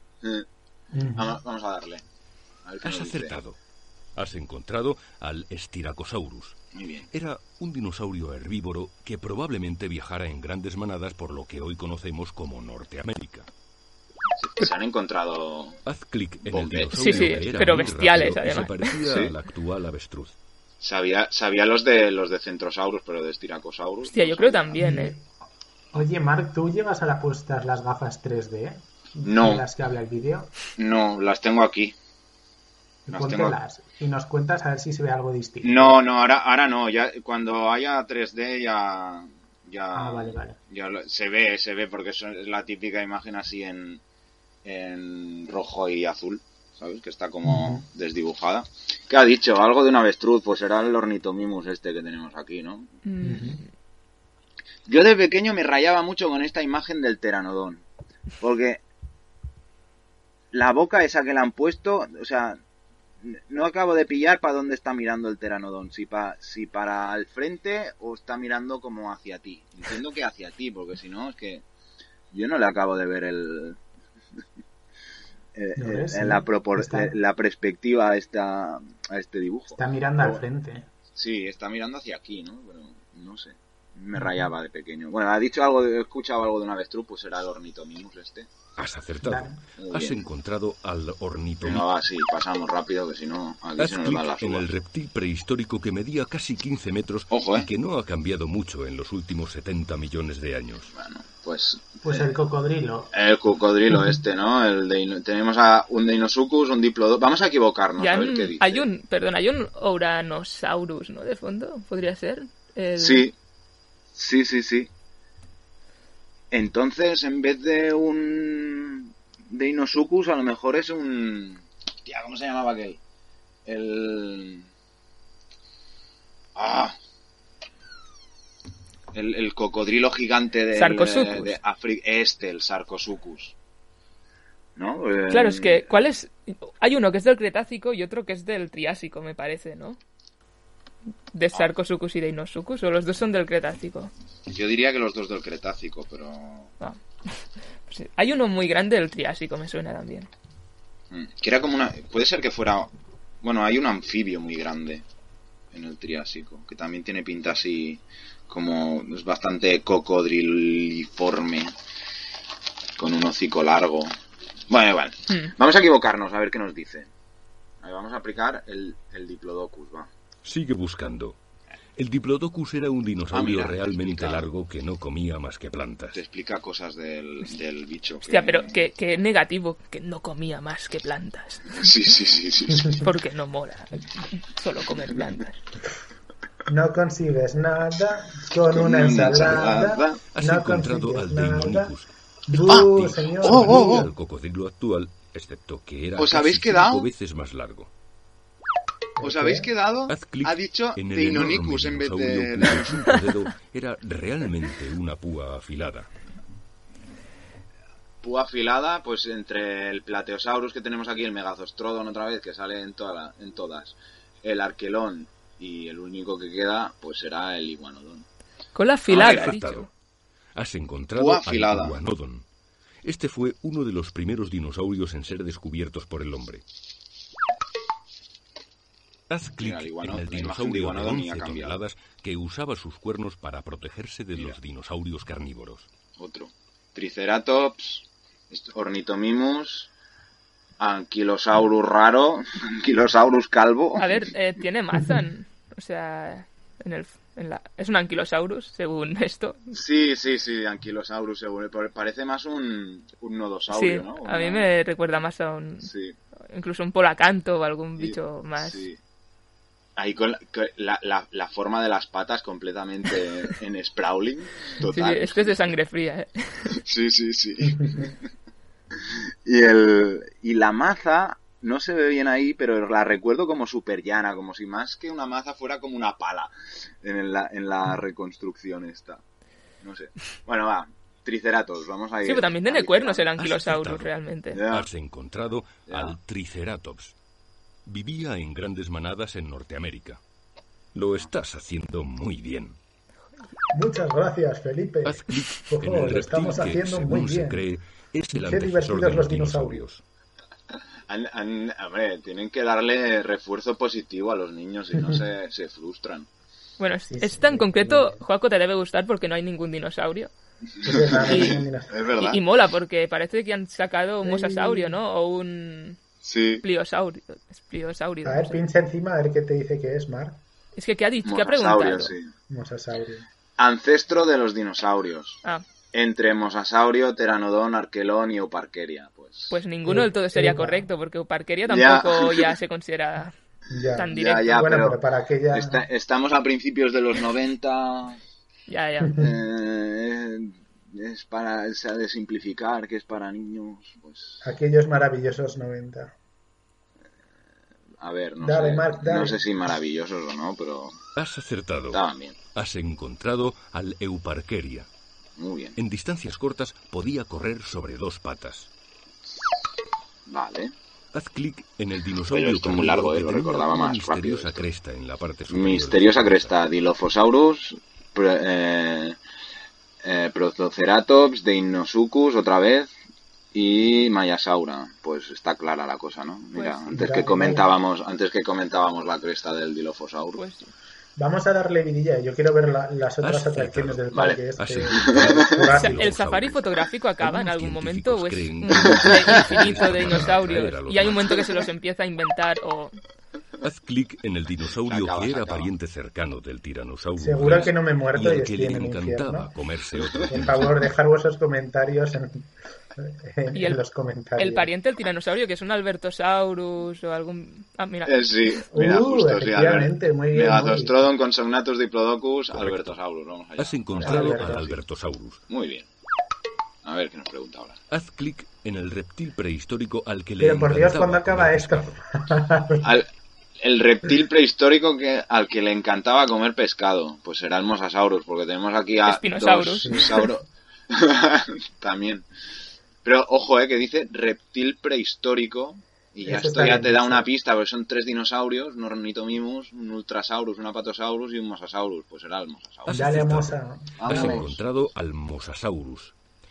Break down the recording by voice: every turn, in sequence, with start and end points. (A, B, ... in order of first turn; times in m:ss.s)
0:00.9-0:01.4 A
0:01.1-0:02.0 B
0:02.6-0:03.3 B
0:02.8-0:03.6 C
0:04.2-0:06.6 C
0:06.7-0:07.1 B
0:07.1-0:13.5 C
0:14.4-0:15.8 B
0:15.8-0:20.3 C
0:16.5-0:17.4 B
0:17.0-0:18.9 D
0:19.0-0:19.3 B
0:20.8-0:24.8 B
0:24.0-0:25.1 D
0:24.8-0:25.2 A
0:25.9-0:30.5 A
0:29.2-0:29.6 B
0:30.8-0:31.9 B
0:33.0-0:36.0 A
0:33.1-0:33.6 B
0:35.6-0:44.0 B
0:39.9-0:40.6 A
0:44.6-0:52.9 B
0:47.4-0:47.8 A
0:53.0-0:53.6 D
0:53.2-0:53.6 A
0:54.9-0:57.8 B
0:58.4-0:58.8 B
1:00.5-1:02.6 B
1:03.2-1:11.6 B
1:12.3-1:13.8 B
1:15.5-1:20.4 B
1:15.8-1:17.1 A
1:19.7-1:20.9 A
1:21.1-1:28.5 B
1:24.2-1:24.5 A
1:28.8-1:31.8 C
1:29.2-1:29.6 A
1:29.8-1:30.2 B
1:31.6-1:34.7 B
1:33.8-1:40.9 C
1:37.3-1:37.7 B
1:40.9-1:42.3 B
1:42.0-1:43.1 A
1:43.1-1:48.8 B
1:48.0-1:53.2 D
1:53.0-1:53.3 B
1:54.1-1:54.9 B
1:56.5-2:03.0 B
2:03.6-2:04.7 B
2:06.6-2:07.0 B
2:09.1-2:13.5 B
2:10.7-2:11.6 D
2:14.8-2:15.9 B
2:15.3-2:20.0 D
2:21.3-2:24.1 D
2:24.5-2:26.7 B
2:26.8-2:30.3 D
2:31.1-2:32.9 B
2:33.4-2:35.0 B
2:35.7-2:41.7 B
2:43.0-2:44.1 B
2:44.7-2:47.1 B
2:47.8-2:50.1 B
2:50.4-2:51.4 C
2:52.0-2:56.2 C
2:53.3-2:54.5 B
2:56.1-2:58.8 B
2:58.2-3:01.8 D
3:01.8-3:03.0 B
3:03.0-3:05.6 D
3:06.7-3:11.9 A
3:08.7-3:10.2 B
3:10.3-3:17.9 C
3:12.5-3:14.1 A
3:13.4-3:14.0 B
3:16.2-3:17.0 B
3:19.2-3:19.7 A
3:19.2-3:23.1 B
3:20.1-3:26.1 C
3:28.2-3:38.2 B
3:38.7-3:39.9 D
3:39.1-3:39.5 B
3:39.1-3:39.9 C
3:40.5-3:42.4 C
3:41.2-3:42.0 B
3:43.0-3:46.6 C
3:49.3-3:55.9 C
3:49.6-3:51.8 B
3:56.2-3:59.9 B
4:00.8-4:04.1 B
4:04.0-4:09.7 D
4:09.7-4:14.7 B
4:13.7-4:15.9 D
4:15.8-4:16.2 B
4:16.5-4:18.8 D
4:18.0-4:19.0 B
4:20.0-4:25.5 B
4:24.9-4:26.6 D
4:26.8-4:28.2 B
4:29.4-4:39.2 B
4:39.8-4:43.3 B
4:42.2-4:44.6 D
4:43.4-4:44.1 C
4:44.5-4:44.8 B
4:44.7-4:47.1 C
4:45.9-4:46.1 B
4:47.8-4:50.2 C
4:50.9-4:52.8 C
4:53.7-4:57.6 A
4:55.0-5:00.0 C
4:58.3-4:59.8 A
5:01.1-5:06.3 B
5:06.8-5:10.3 D
5:07.1-5:08.2 A
5:10.8-5:12.4 B
5:10.8-5:12.0 A
5:11.1-5:11.6 D
5:12.2-5:16.0 D
5:14.2-5:15.0 A
5:16.2-5:16.6 B
5:16.6-5:18.6 D
5:18.2-5:20.4 A
5:20.8-5:22.1 D
5:21.2-5:22.3 B
5:22.5-5:23.2 A
5:23.6-5:25.4 B
5:25.9-5:29.6 B
5:29.5-5:33.3 D
5:29.8-5:30.8 A
5:31.7-5:32.5 B
5:33.7-5:35.8 A
5:33.9-5:34.5 D
5:34.1-5:35.0 B
5:35.5-5:38.2 B
5:38.7-5:39.2 D
5:39.1-5:39.3 A
5:39.2-5:44.4 B
5:44.4-5:46.1 A
5:48.0-5:51.0 B
5:48.4-5:49.4 A
5:51.2-5:52.0 C
5:51.9-5:52.4 B
5:52.5-5:54.9 C
5:55.4-5:55.8 B
5:55.8-5:58.7 C
6:00.3-6:00.7 B
6:01.1-6:06.6 C
6:02.3-6:04.6 B
6:05.5-6:09.2 B
6:10.0-6:12.9 B
6:13.5-6:20.4 B
6:16.5-6:16.8 D
6:16.9-6:17.7 A
6:20.4-6:20.7 D
6:21.2-6:26.1 A
6:23.2-6:26.6 C
6:24.1-6:24.4 B
6:25.1-6:25.4 B
6:25.8-6:33.0 D
6:27.2-6:31.2 C
6:33.6-6:40.8 C
6:34.8-6:35.7 B
6:37.2-6:39.5 A
6:40.3-6:42.4 A
6:43.0-6:44.7 A
6:43.5-6:43.8 D
6:44.4-6:48.1 D
6:48.0-6:54.8 B
6:48.7-6:51.1 A
6:52.5-6:53.0 C
6:53.6-6:55.4 C
6:54.0-6:54.6 A
6:55.5-6:55.8 B
6:56.8-6:57.8 B
6:57.9-7:02.0 C
7:00.4-7:02.9 A
7:02.8-7:03.1 B
7:03.6-7:12.2 B
7:09.0-7:10.1 D
7:09.8-7:10.1 A
7:13.0-7:23.2 B
7:16.2-7:17.3 A
7:22.8-7:26.1 C
7:22.9-7:24.4 A
7:24.0-7:24.6 B